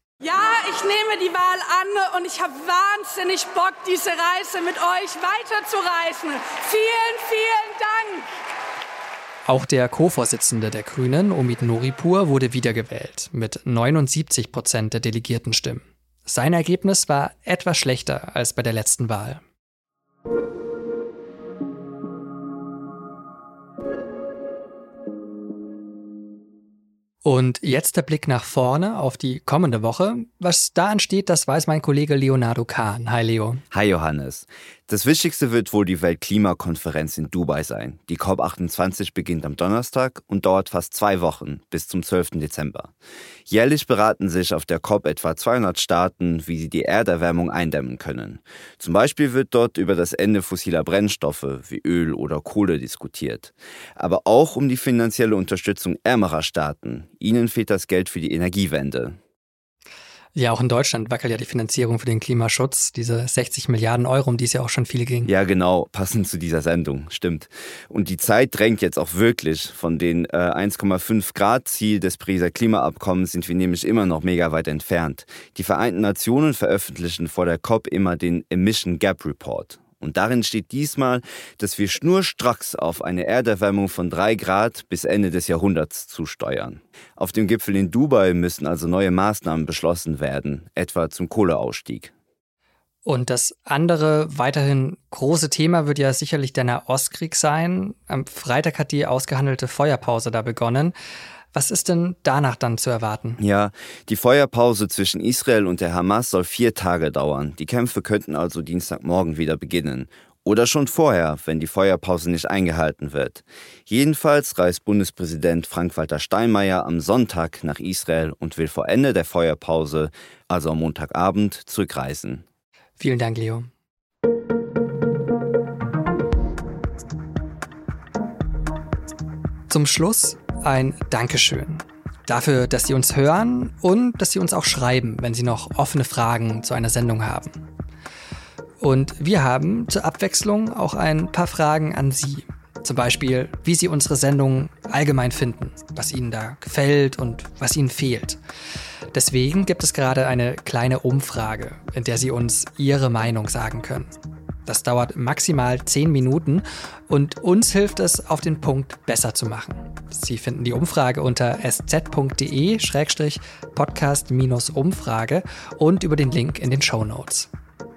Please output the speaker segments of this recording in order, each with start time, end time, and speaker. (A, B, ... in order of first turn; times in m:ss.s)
0:00.2-0:08.2 A
0:09.5-0:19.4 B
0:27.2-0:33.6 B
0:33.7-0:42.9 C
0:43.5-0:59.2 C
1:00.3-1:05.3 B
1:05.2-1:32.1 C
1:33.0-1:40.9 B
1:41.5-1:43.4 B
1:43.4-2:02.4 C
2:03.0-2:03.7 B
2:09.7-2:17.6 B
2:18.8-2:28.4 B
2:29.1-2:34.1 B
2:34.6-2:47.5 B